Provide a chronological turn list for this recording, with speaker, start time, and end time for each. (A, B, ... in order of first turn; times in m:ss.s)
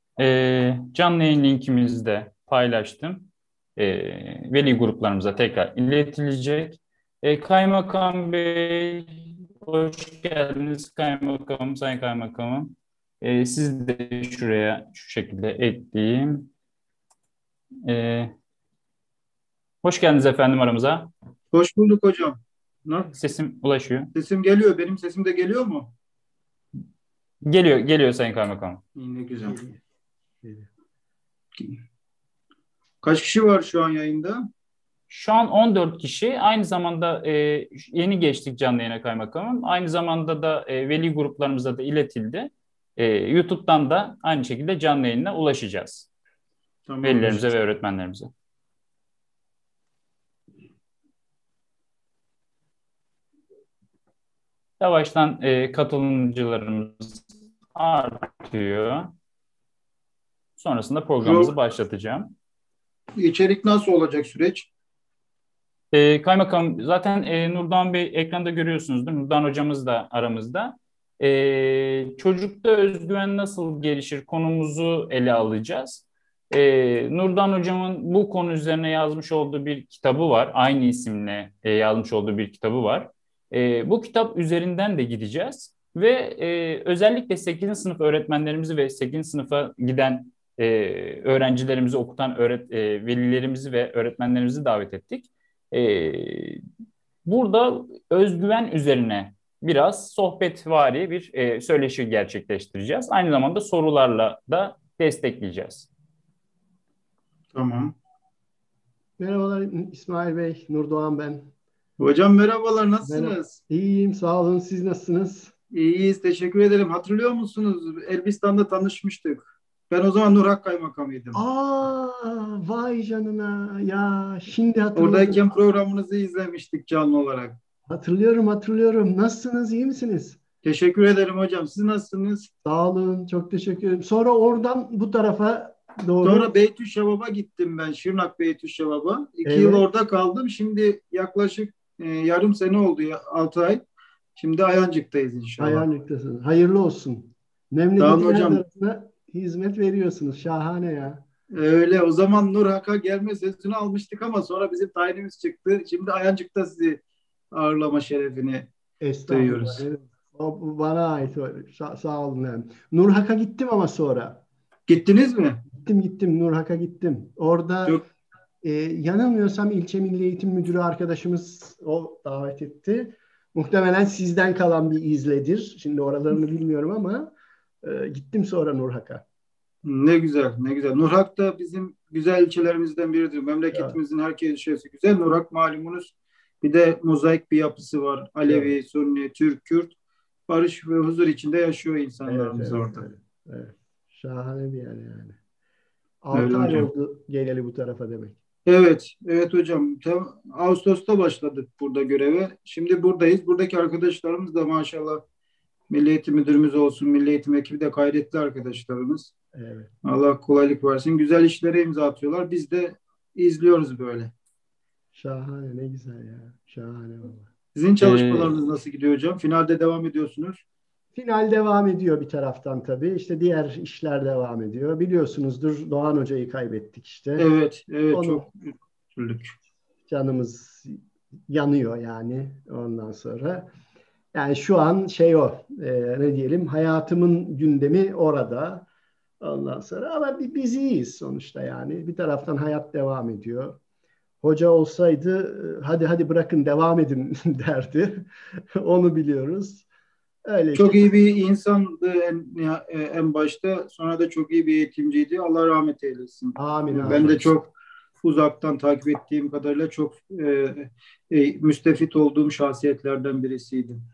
0:00.2-0:16.5 A
0:17.8-0:18.3 A
0:19.8-0:21.1 A
0:21.5-0:23.1 B
0:23.1-0:24.1 A
0:24.1-0:25.9 B
0:27.4-0:28.8 A
0:28.9-0:29.6 B
0:29.4-0:29.8 C
0:33.0-0:34.5 B
0:35.1-0:46.1 A
0:46.8-0:47.4 B
0:47.0-0:48.3 A
0:54.8-0:59.1 A
1:00.6-1:02.3 A
1:01.2-1:01.5 B
1:03.2-1:04.7 B
1:05.9-1:36.6 A
1:37.2-1:45.9 A
1:47.5-1:47.9 B
1:49.2-1:51.5 C
1:52.0-1:53.5 B
1:53.0-1:55.5 C
1:55.7-2:01.4 B
2:01.3-2:05.6 C
2:05.0-2:07.6 B
2:07.9-2:10.4 C
2:10.6-2:12.5 B
2:12.6-2:16.5 C
2:16.2-2:23.8 B
2:19.4-2:19.8 C
2:24.4-2:25.8 B
2:25.6-2:31.2 C
2:28.0-2:28.6 B
2:31.5-2:37.0 B
2:37.5-2:38.7 B
2:39.0-2:44.4 C
2:39.3-2:39.8 B
2:44.9-2:45.6 B
2:45.7-2:48.0 C
2:48.6-2:59.2 C
2:59.8-3:09.9 B
3:03.7-3:04.0 C
3:08.4-3:08.7 C
3:10.5-3:13.0 B
3:12.2-3:15.4 C
3:16.2-3:18.4 C
3:16.3-3:16.9 B
3:18.6-3:25.2 B
3:25.9-3:29.3 B
3:29.5-3:29.9 C
3:30.0-3:34.3 B
3:35.1-3:37.4 C
3:37.7-3:40.6 B
3:38.0-3:38.6 A
3:41.1-3:47.5 C
3:47.4-3:49.5 B
3:48.1-3:48.4 C
3:50.1-3:53.7 C
3:54.3-3:58.9 C
3:59.4-4:03.8 C
4:04.4-4:09.8 C
4:10.4-4:11.1 C
4:10.7-4:24.0 B
4:16.6-4:17.5 C